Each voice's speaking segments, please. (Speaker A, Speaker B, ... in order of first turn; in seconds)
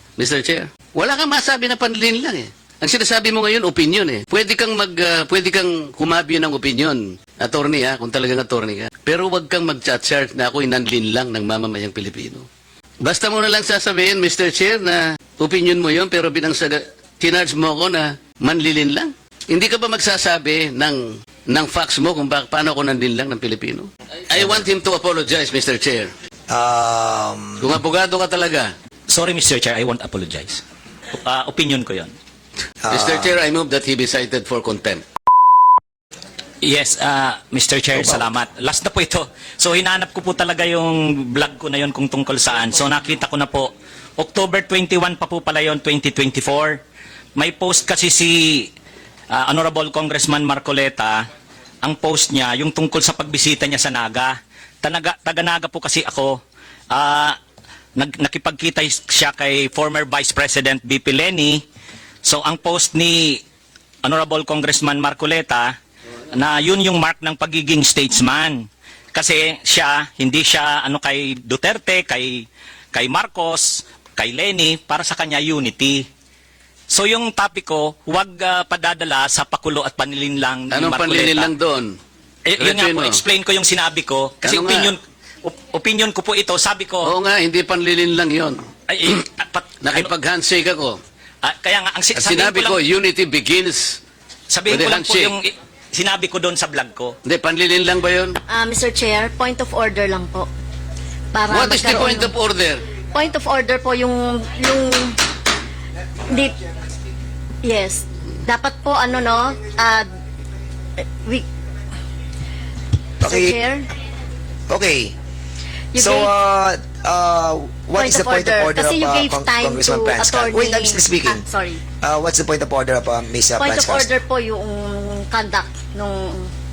Speaker A: 0.2-12.5, 13.0-26.1, 27.6-28.7, 32.9-35.0, 80.7-82.0, 82.6-83.2, 84.4-84.9, 87.0-88.7, 89.8-91.0, 92.1-94.0, 94.7-95.3, 97.2-98.4, 101.5-102.9
Speaker B: 24.4-24.6, 26.5-27.7, 32.8-33.4, 38.0-38.2, 113.2-113.5, 114.7-115.1, 116.0-121.4, 122.0-124.1
Speaker C: 29.1-30.6, 31.1-32.1, 36.6-46.8, 47.4-48.7, 49.3-51.2, 51.8-56.4, 56.9-57.4, 58.0-61.6, 62.2-63.4, 64.0-65.7, 66.3-76.0, 76.9-81.5, 82.5-87.1, 88.9-90.1, 91.4-92.8, 94.5-97.2
Speaker D: 98.5-100.5, 101.3-102.3, 103.1-105.2, 106.3-106.6, 107.6-110.1, 111.1-111.5, 113.2-113.9, 115.9-116.3, 118.0-121.8, 123.6-126.5